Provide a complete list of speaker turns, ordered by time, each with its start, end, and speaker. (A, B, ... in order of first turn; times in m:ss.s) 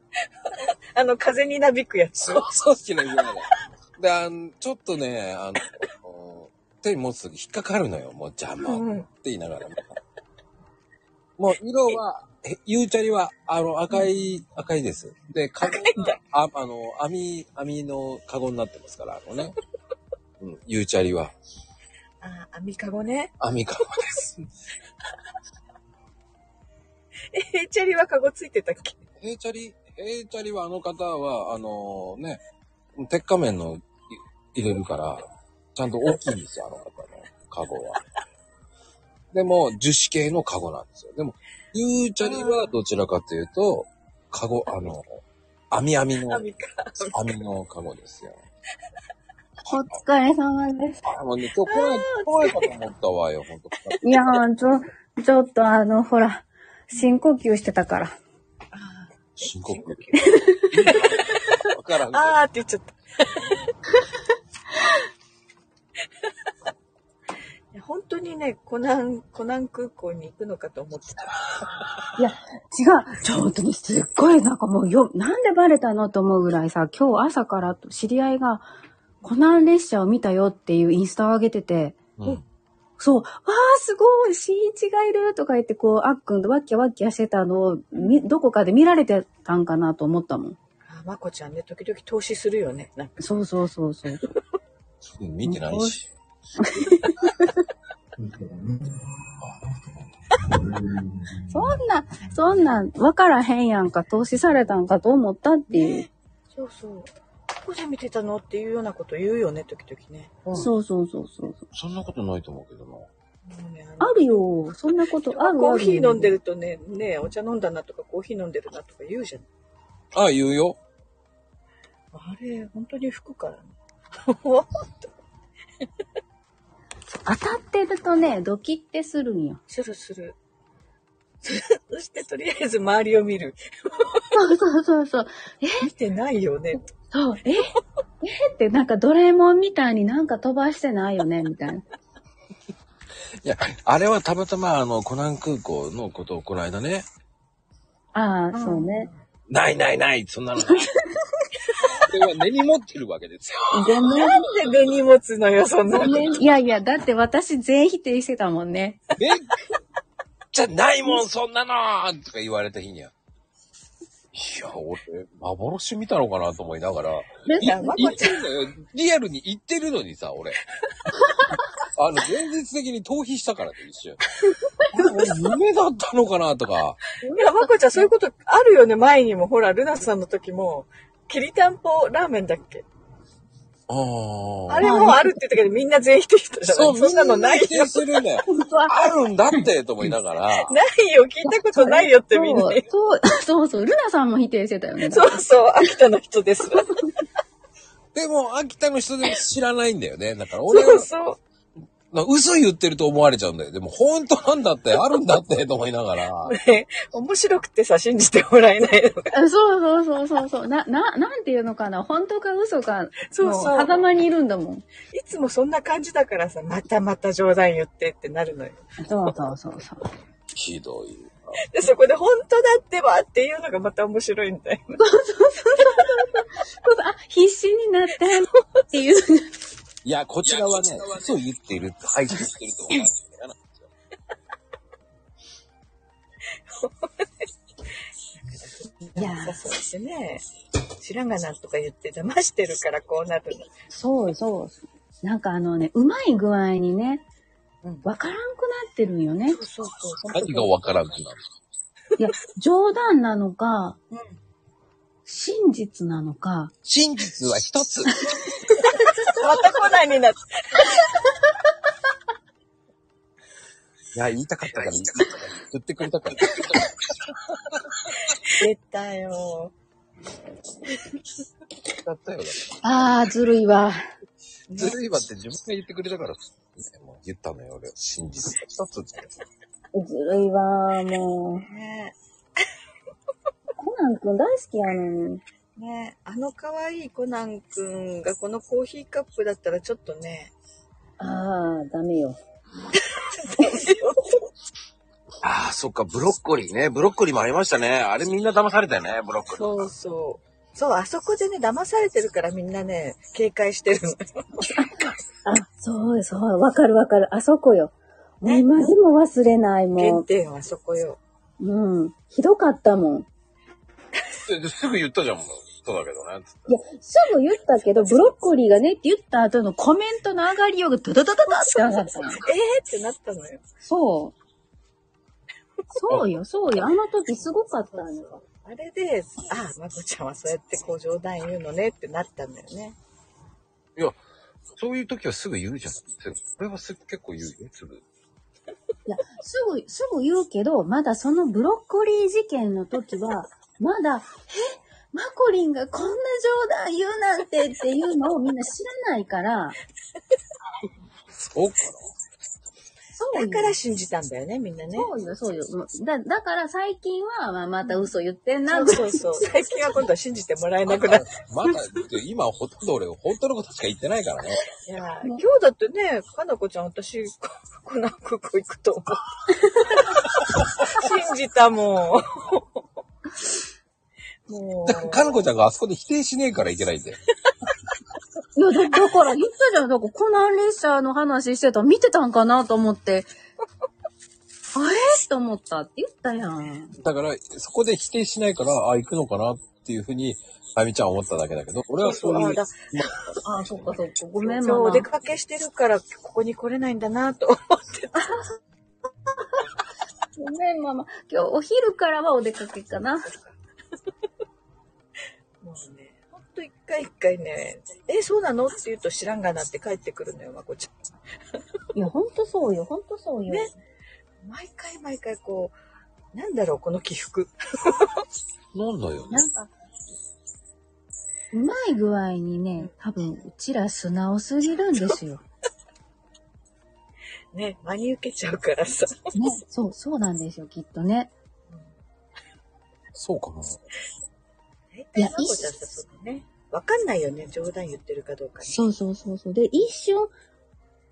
0:00.5-0:02.6 A
0:02.2-0:10.0 B
0:08.6-0:09.1 A
0:11.4-0:19.6 B
0:15.6-0:16.2 A
0:20.4-0:21.3 B
0:22.2-0:23.3 A
0:23.4-0:24.5 B
0:27.3-0:29.0 A
0:29.2-0:32.4 B
0:33.0-0:38.0 B
0:39.3-0:46.4 B
0:42.2-0:42.7 A
0:46.3-0:47.3 A
0:47.1-0:48.4 B
0:49.7-0:51.0 C
0:51.0-0:54.0 B
0:51.7-0:52.8 A
0:54.0-0:58.2 C
0:58.7-1:03.7 A
0:59.4-1:02.4 B
1:00.2-1:00.7 C
1:07.7-1:11.7 A
1:12.2-1:18.7 C
1:19.2-1:22.0 C
1:22.2-1:22.4 B
1:23.0-1:30.6 C
1:30.8-1:33.2 A
1:33.2-1:34.3 C
1:35.0-1:36.1 B
1:35.4-1:36.0 C
1:36.6-1:37.6 C
1:41.5-1:46.1 C
1:45.7-1:50.5 A
1:50.6-1:51.7 C
1:51.7-1:53.1 B
1:53.5-1:59.4 A
1:54.0-1:56.3 C
2:00.1-2:00.8 B
2:02.1-2:03.7 A
2:04.2-2:05.1 A
2:07.2-2:09.6 C
2:09.7-2:10.4 A
2:11.4-2:14.3 A
2:14.3-2:15.9 C
2:15.8-2:16.9 A
2:17.1-2:17.7 C
2:18.2-2:21.8 C
2:23.4-2:27.1 B
2:28.1-2:29.1 C
2:28.5-2:29.1 A
2:29.5-2:30.9 B
2:31.8-2:32.1 A
2:32.1-2:34.1 B
2:33.7-2:34.4 C
2:34.1-2:36.4 A
2:36.0-2:39.0 C
2:39.2-2:39.5 B
2:40.5-2:43.1 B
2:44.3-2:50.6 B
2:47.5-2:48.1 C
2:47.6-2:48.4 A
2:51.9-2:54.2 B
2:54.8-2:55.6 C
2:54.9-2:57.0 B
2:57.2-2:58.1 C
2:57.4-3:02.8 A
3:03.9-3:04.9 B
3:04.7-3:08.0 A
3:04.8-3:05.3 C
3:06.7-3:10.8 B
3:08.5-3:09.0 C
3:10.7-3:12.8 A
3:11.4-3:15.4 C
3:15.0-3:17.0 A
3:18.1-3:21.1 B
3:20.7-3:21.4 A
3:22.1-3:26.6 B
3:26.5-3:29.3 A
3:29.3-3:34.8 C
3:33.3-3:34.1 A
3:35.1-3:38.8 A
3:39.0-3:40.0 C
3:40.5-3:41.6 B
3:41.6-3:45.0 A
3:45.0-3:49.5 C
3:45.8-3:46.1 A
3:50.0-3:53.9 B
3:56.7-3:57.4 A
3:58.4-4:00.5 A
3:59.2-3:59.6 C
4:01.0-4:03.7 A
4:03.9-4:07.2 C
4:08.0-4:09.6 C
4:09.5-4:10.7 A
4:10.3-4:11.5 B
4:12.2-4:14.0 C
4:15.3-4:16.7 C
4:16.8-4:18.2 B
4:18.9-4:21.1 A
4:24.1-4:28.0 B
4:28.4-4:29.7 A
4:32.0-4:33.0 B
4:32.8-4:34.0 C
4:34.7-4:35.0 A
4:34.8-4:39.3 B
4:39.9-4:41.7 C
4:41.6-4:42.2 A
4:43.8-4:45.4 C
4:45.8-4:50.5 A
4:51.2-4:52.4 C
4:53.0-4:54.4 A
4:55.4-4:59.9 B
4:59.5-5:04.8 A
5:04.7-5:10.2 C
5:08.4-5:08.9 A
5:10.0-5:11.2 A
5:11.6-5:13.3 C
5:14.4-5:16.8 B
5:16.7-5:22.5 C
5:21.6-5:23.6 A
5:23.8-5:24.4 C
5:25.9-5:28.4 C
5:28.0-5:33.0 A
5:34.8-5:38.0 B
5:39.1-5:49.8 C
5:51.3-5:52.1 B
5:53.2-5:53.8 C
5:53.3-5:55.1 A
5:55.0-5:59.4 C
5:58.7-6:01.3 A
6:00.9-6:04.6 B
6:04.8-6:09.3 A
6:09.6-6:10.0 C
6:09.8-6:12.8 A
6:14.5-6:15.5 A
6:14.9-6:17.2 B
6:18.6-6:23.3 C
6:24.7-6:26.9 C
6:27.0-6:33.1 B
6:32.0-6:33.3 A
6:33.4-6:35.1 C
6:34.4-6:38.4 A
6:38.2-6:38.4 C
6:40.4-6:43.3 C
6:43.3-6:43.6 A
6:45.6-6:50.9 A
6:51.9-6:53.7 C
6:54.4-6:55.8 A
6:56.3-6:58.2 A
6:58.7-6:59.5 B
6:59.3-6:59.7 C
7:01.5-7:05.4 C
7:07.5-7:09.3 A
7:09.3-7:11.3 C
7:13.1-7:13.8 B
7:14.9-7:18.8 A
7:15.2-7:15.7 C
7:18.6-7:20.3 C